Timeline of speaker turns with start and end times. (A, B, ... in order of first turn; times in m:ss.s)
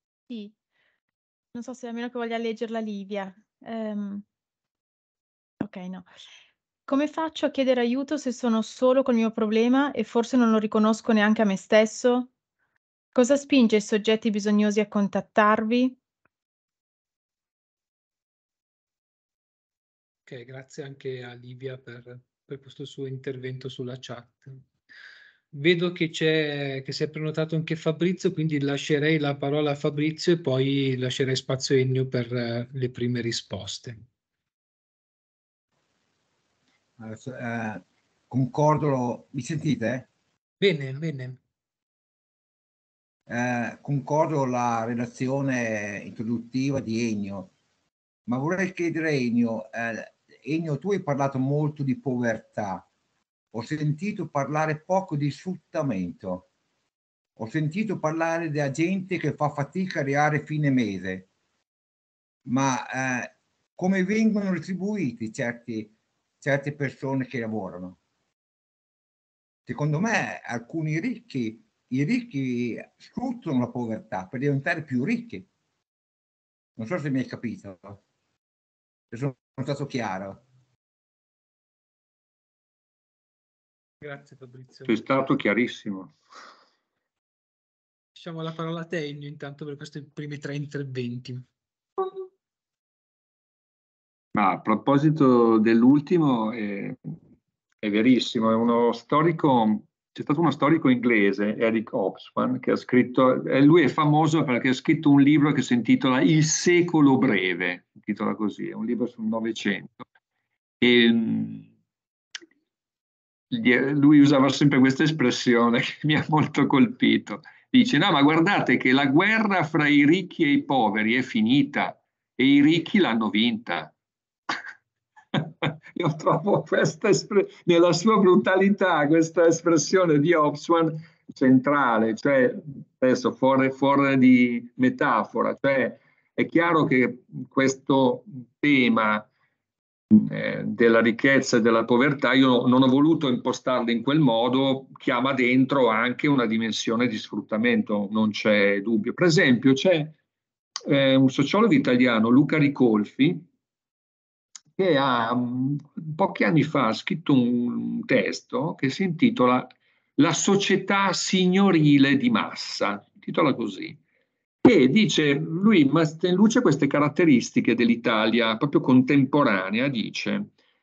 0:00.3-0:00.5 A
0:01.5-0:04.2 A
0:05.6-0:06.1 A
0:06.9-0:12.3 A
0:13.1-0:16.0 A
0:20.3-0:24.6 B
0:25.5-0:34.0 B
0:37.0-0:40.1 C
0:40.6-0:41.4 B
0:43.3-0:47.5 C
0:48.3-0:52.9 C
0:53.5-0:56.5 C
0:57.4-1:01.3 C
1:02.5-1:08.0 C
1:09.7-1:15.5 C
1:16.8-1:18.0 C
1:19.1-1:20.4 C
1:24.0-1:25.1 B
1:24.9-1:26.1 D
1:28.2-1:31.4 B
1:34.4-1:37.2 D
1:37.8-1:50.0 D
1:50.8-1:51.7 D
1:53.5-2:03.9 D
2:05.4-2:19.3 D
2:20.1-2:30.2 D
2:30.9-2:33.5 D
2:34.8-2:44.0 D
2:44.6-2:50.5 D